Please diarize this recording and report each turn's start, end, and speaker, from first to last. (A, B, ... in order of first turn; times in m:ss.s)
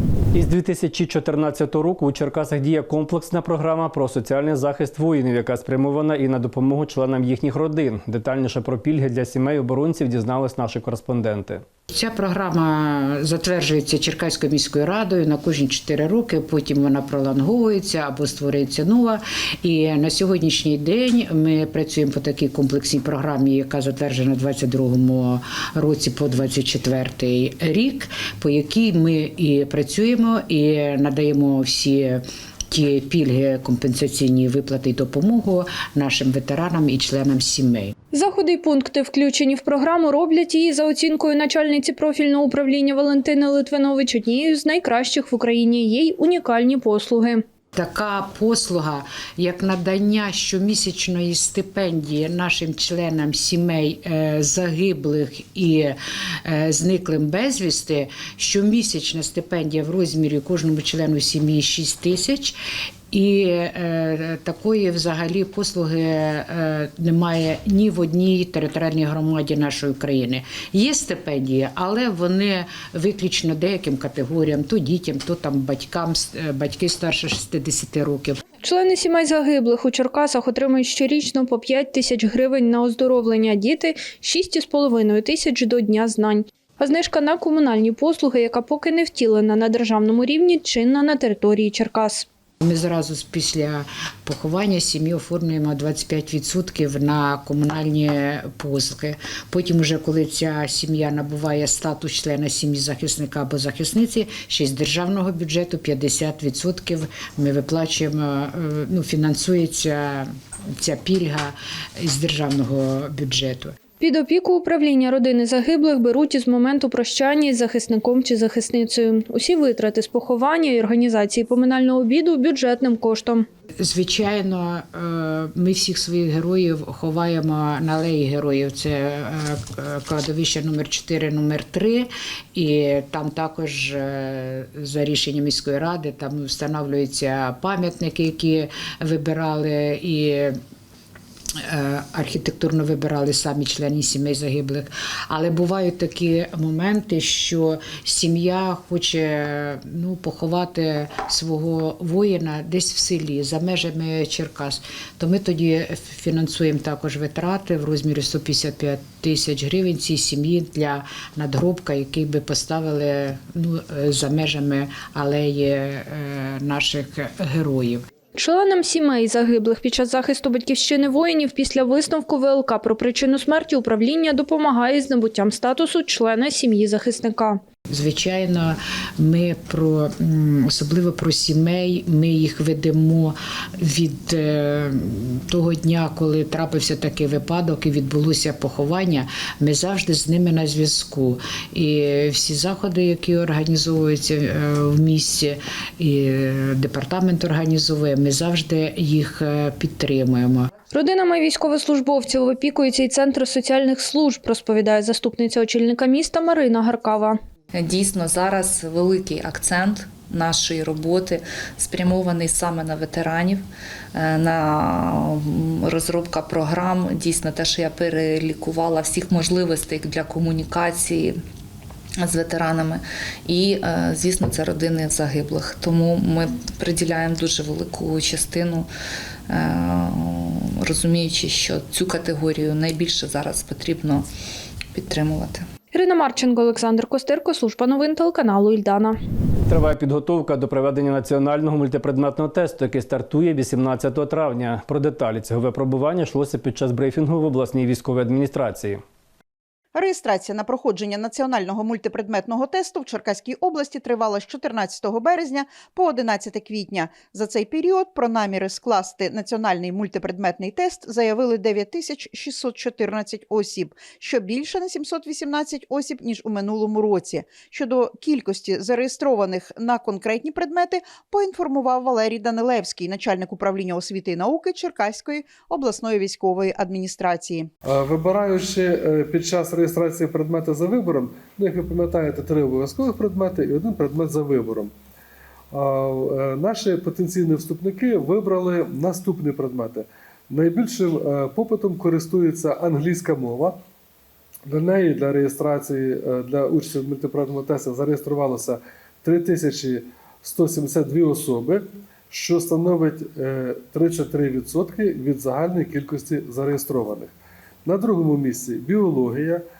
0:00.3-0:11.6 A
0:11.9-0:37.9 B
0:38.1-0:47.4 C
0:47.8-1:02.6 B
1:03.1-1:18.4 B
1:18.6-1:32.3 C
1:32.6-1:53.8 B
1:54.0-2:03.5 C
2:03.8-2:20.6 B
2:21.6-2:48.1 B
2:48.4-2:57.6 C
2:57.9-3:20.7 B
3:20.9-3:27.4 C
3:27.7-3:41.4 D
3:42.2-3:48.9 D
3:49.5-3:54.3 D
3:54.9-3:55.7 D
3:55.9-3:59.2 C
3:59.7-4:09.0 A
4:10.0-4:37.7 E
4:37.8-4:44.9 F
4:45.7-4:53.8 F
4:54.7-5:07.3 F
5:07.8-5:09.6 F